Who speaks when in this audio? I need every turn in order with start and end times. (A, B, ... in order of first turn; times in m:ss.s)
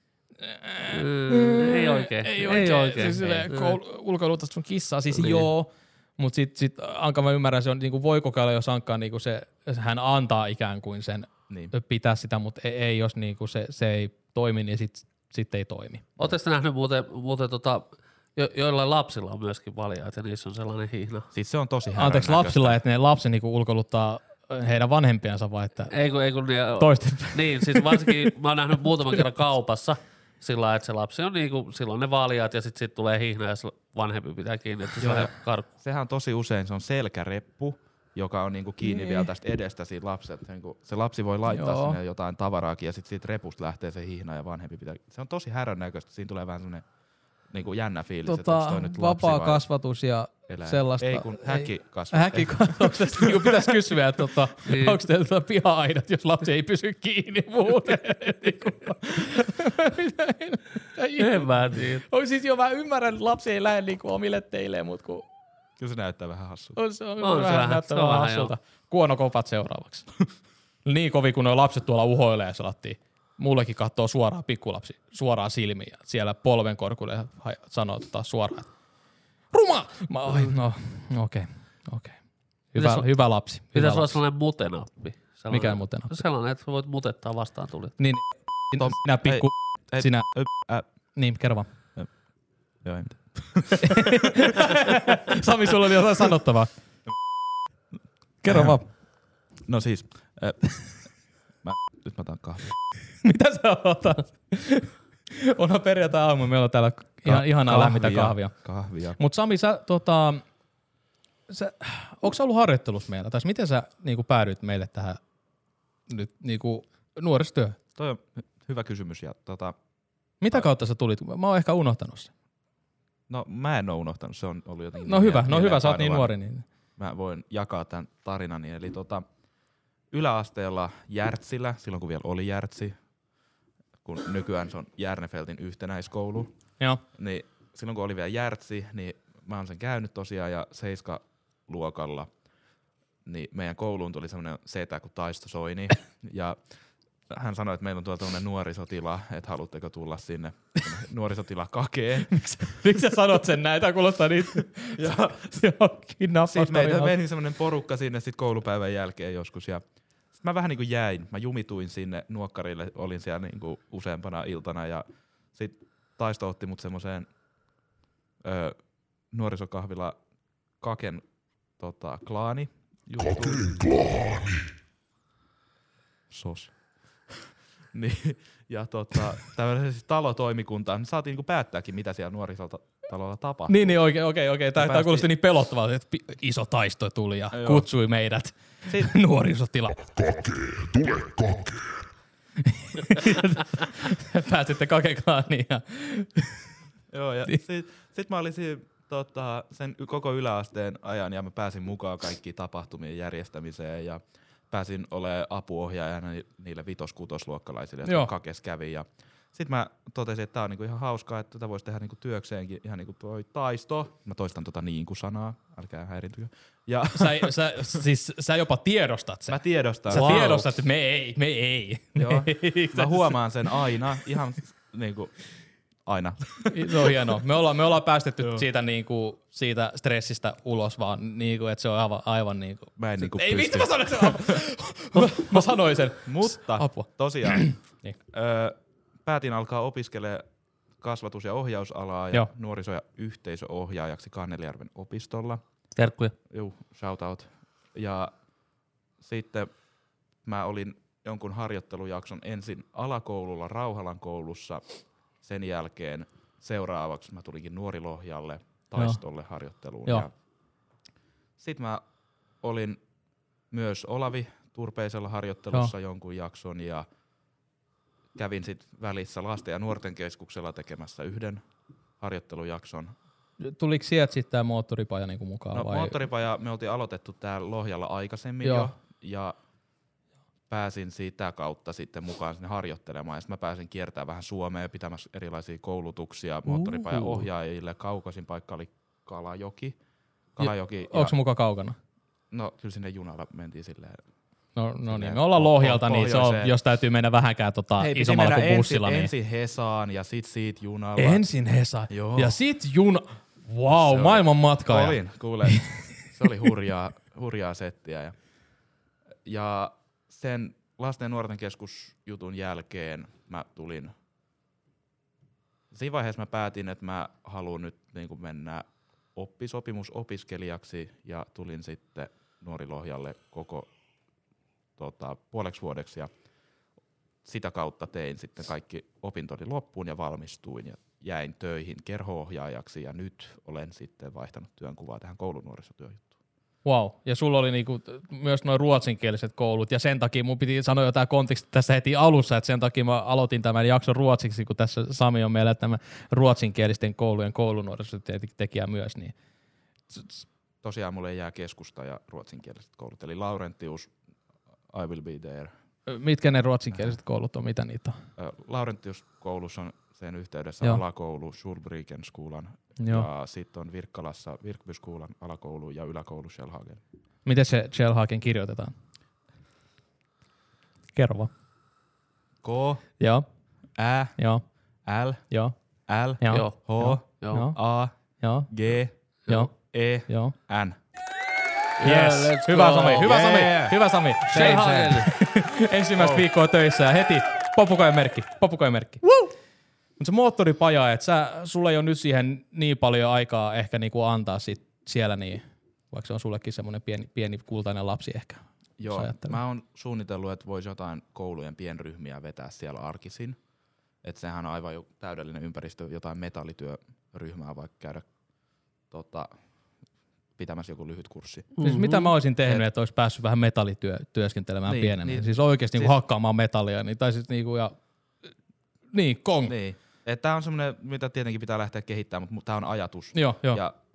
0:00.4-0:16.1 A
0:00.9-0:03.8 B
0:05.1-0:05.5 B
0:11.5-0:11.7 C
0:16.2-0:21.3 B
0:21.3-0:22.8 C
0:22.0-0:25.9 A
0:25.9-0:35.7 B
0:26.8-0:28.2 A
0:35.0-0:46.8 C
0:38.8-0:39.3 A
0:41.5-0:42.0 A
0:47.5-0:49.6 C
0:48.2-1:05.2 A
0:50.5-0:53.7 C
0:54.6-0:55.0 B
1:01.2-1:02.0 B
1:05.8-1:06.8 C
1:06.8-1:10.1 A
1:07.2-1:08.5 B
1:10.8-1:18.7 A
1:19.5-1:22.2 A
1:22.7-1:24.2 A
1:22.7-1:27.9 B
1:25.5-1:26.2 A
1:28.0-1:30.3 A
1:28.8-1:30.8 C
1:31.1-1:31.7 A
1:32.8-1:34.5 C
1:33.8-1:36.7 A
1:38.4-1:38.9 A
1:38.5-1:38.8 C
1:39.7-1:41.0 C
1:41.6-1:42.7 C
1:43.2-1:48.6 A
1:47.2-1:49.2 C
1:49.2-1:50.4 A
1:51.5-1:55.2 A
1:56.1-1:57.8 A
1:58.0-1:59.7 C
2:00.4-2:02.3 A
2:03.3-2:06.3 C
2:05.0-2:06.6 A
2:07.0-2:09.2 C
2:10.1-2:12.9 C
2:14.0-2:16.5 C
2:17.1-2:22.3 C
2:23.2-2:26.6 C
2:27.3-2:32.9 C
2:32.3-2:37.2 A
2:35.0-2:35.4 C
2:36.4-2:39.8 C
2:40.4-2:47.3 C
2:48.4-2:48.8 C
2:49.3-2:50.1 C
2:50.8-2:51.2 C
2:51.8-2:54.4 C
2:56.3-2:56.7 C
2:57.9-3:04.0 C
3:03.7-3:10.7 A
3:04.8-3:05.3 C
3:07.5-3:07.9 C
3:12.6-3:16.6 A
3:17.1-3:38.0 C
3:28.0-3:28.3 A
3:37.2-3:43.4 A
3:39.5-3:40.5 C
3:40.1-3:40.7 B
3:42.2-3:45.4 C
3:46.0-3:47.1 C
3:46.7-3:58.2 A
3:53.0-3:54.6 C
3:56.2-3:57.6 C
3:58.3-4:00.4 C
4:01.0-4:05.6 C
4:06.0-4:06.3 B
4:06.5-4:08.3 C
4:09.2-4:09.7 C
4:10.4-4:14.8 C
4:15.4-4:20.3 C
4:21.6-4:22.0 C
4:22.6-4:23.0 C
4:23.7-4:27.0 C
4:28.4-4:31.6 C
4:32.2-4:33.1 C
4:33.6-4:36.3 A
4:35.7-4:39.5 C
4:38.6-4:38.9 A
4:40.7-4:50.0 C
4:46.7-4:47.5 B
4:50.6-4:51.4 C
4:50.6-4:51.9 A
4:52.5-4:54.2 C
4:54.7-4:59.3 A
4:55.1-4:56.7 C
4:58.0-5:01.5 C
5:01.2-5:06.1 A
5:02.1-5:02.6 C
5:03.9-5:08.3 C
5:09.4-5:14.1 C
5:15.9-5:18.8 C
5:19.3-5:23.9 C
5:25.0-5:26.3 C
5:27.4-5:36.3 C
5:36.8-5:49.3 A
5:50.1-5:50.4 A
5:50.8-5:54.1 C
5:54.9-5:55.7 C
5:56.1-5:58.2 A
5:58.4-6:07.0 C
6:03.0-6:03.3 A
6:07.4-6:08.9 A
6:11.1-6:11.5 A
6:12.6-6:13.0 C
6:13.2-6:13.4 A
6:14.0-6:14.4 C
6:14.4-6:14.6 A
6:15.0-6:15.4 C
6:16.1-6:18.1 C
6:16.4-6:17.8 A
6:16.5-6:16.8 B
6:17.4-6:17.7 B
6:18.4-6:18.7 A
6:18.7-6:19.1 C
6:19.8-6:21.0 C
6:20.3-6:20.5 A
6:22.0-6:23.3 B
6:22.0-6:29.5 A
6:23.2-6:25.2 C
6:24.5-6:25.3 B
6:26.2-6:26.4 C
6:30.2-6:39.6 A
6:39.0-6:43.6 C
6:44.2-6:48.2 C
6:49.1-6:49.5 C
6:50.6-6:51.8 C
6:51.8-6:52.3 B
6:51.8-6:57.9 A
6:54.8-6:56.2 C
6:59.1-6:59.7 A
6:59.7-7:03.9 C
7:03.3-7:03.8 A